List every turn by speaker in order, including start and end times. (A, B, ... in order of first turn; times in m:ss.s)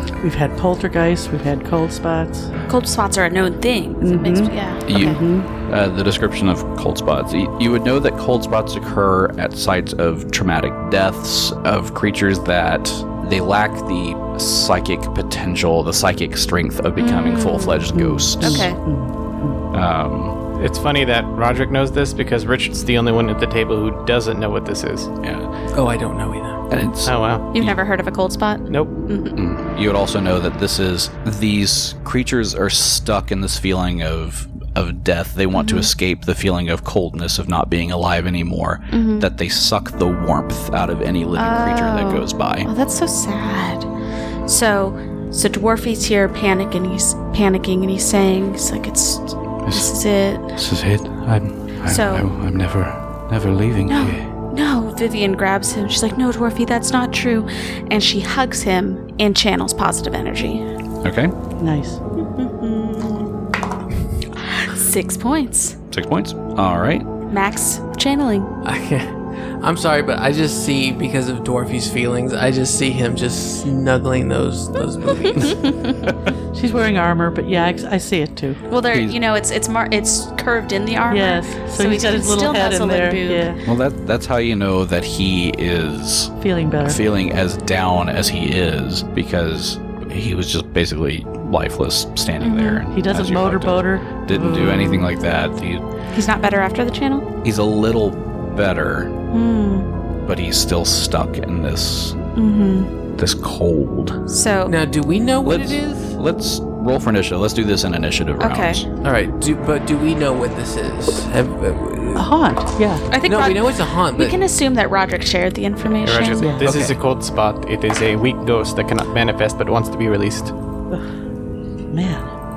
0:00.2-0:02.5 A
0:02.7-0:05.1 B
0:04.0-0:05.5 A
0:04.9-0:18.7 C
0:17.0-0:17.8 B
0:17.9-0:19.6 A
0:18.4-0:18.8 B
0:19.7-0:20.4 C
0:20.6-0:25.1 D
0:25.2-0:25.5 C
0:25.7-0:26.6 E
0:26.7-0:27.7 C
0:27.0-0:27.4 D
0:27.5-0:29.4 B
0:28.7-0:28.9 D
0:29.4-0:42.7 C
0:35.5-0:35.9 B
0:38.9-0:39.3 B
0:41.4-0:43.9 B
0:44.4-0:50.5 B
0:49.6-0:49.9 C
0:50.5-0:54.3 C
0:51.8-0:52.3 B
0:53.9-1:00.6 B
1:01.0-1:01.3 C
1:01.6-1:02.0 A
1:02.2-1:03.5 B
1:04.4-1:05.8 B
1:05.9-1:07.0 C
1:07.3-1:08.5 B
1:08.6-1:15.7 E
1:15.3-1:16.0 B
1:16.5-1:18.6 A
1:18.7-1:23.5 B
1:18.9-1:19.2 C
1:21.1-1:23.6 A
1:23.6-1:35.8 C
1:26.4-1:27.0 A
1:32.4-1:32.8 B
1:32.9-1:35.1 A
1:36.1-1:37.3 B
1:37.4-1:39.1 C
1:39.3-1:39.9 B
1:40.2-1:42.2 C
1:42.4-1:42.9 B
1:43.2-1:44.2 C
1:44.3-1:44.7 B
1:44.6-1:46.1 E
1:45.4-1:48.8 C
1:48.4-1:48.8 B
1:49.0-1:52.3 E
1:52.1-1:53.0 A
1:53.1-1:56.5 B
1:53.2-1:54.4 E
1:56.0-2:00.5 D
1:56.4-1:56.8 A
1:56.6-1:56.9 C
2:01.9-2:02.3 A